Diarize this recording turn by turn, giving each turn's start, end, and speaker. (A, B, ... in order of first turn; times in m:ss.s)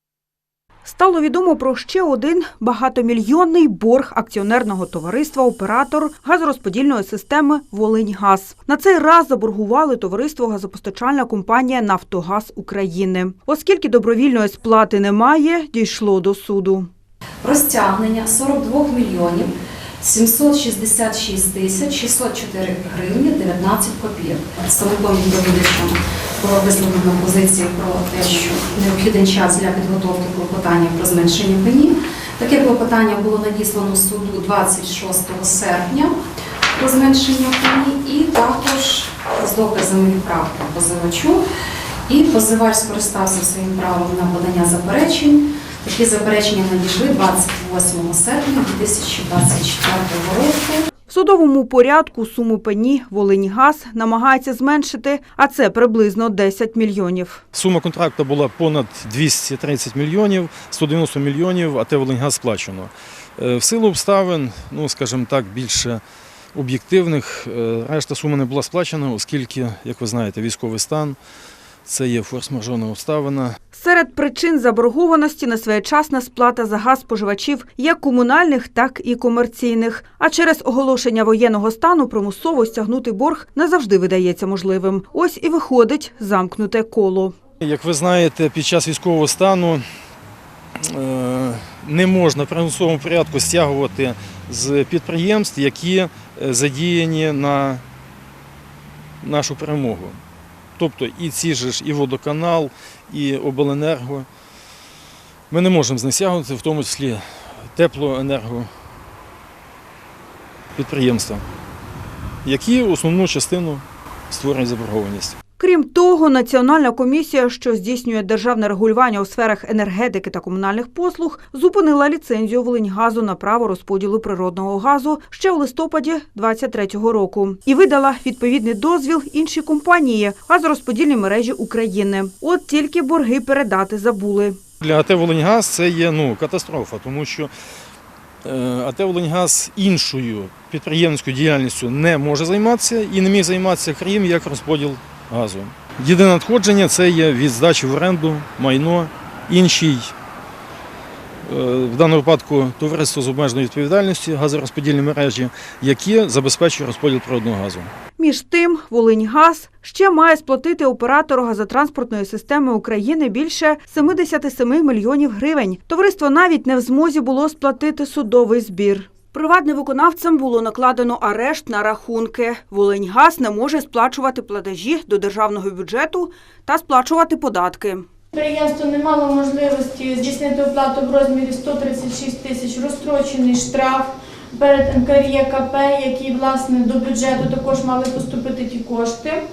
0:00.8-0:16.9 A
0:17.4-0:36.2 B
0:36.8-0:41.4 B
0:42.1-0:50.9 B
0:51.1-0:57.4 A
0:57.5-1:06.0 C
1:06.5-1:11.2 C
1:11.8-1:13.6 C
1:13.7-1:27.3 A
1:27.6-1:29.8 C
1:30.8-1:37.8 C
1:39.2-1:40.2 C
1:40.8-1:44.2 C
1:45.5-1:48.7 C
1:50.8-1:51.4 C
1:52.4-1:55.4 C
1:55.6-2:14.6 A
2:14.8-2:17.5 C
2:18.4-2:30.1 C
2:31.4-2:37.9 C
2:38.2-2:58.0 A
2:58.3-3:09.4 D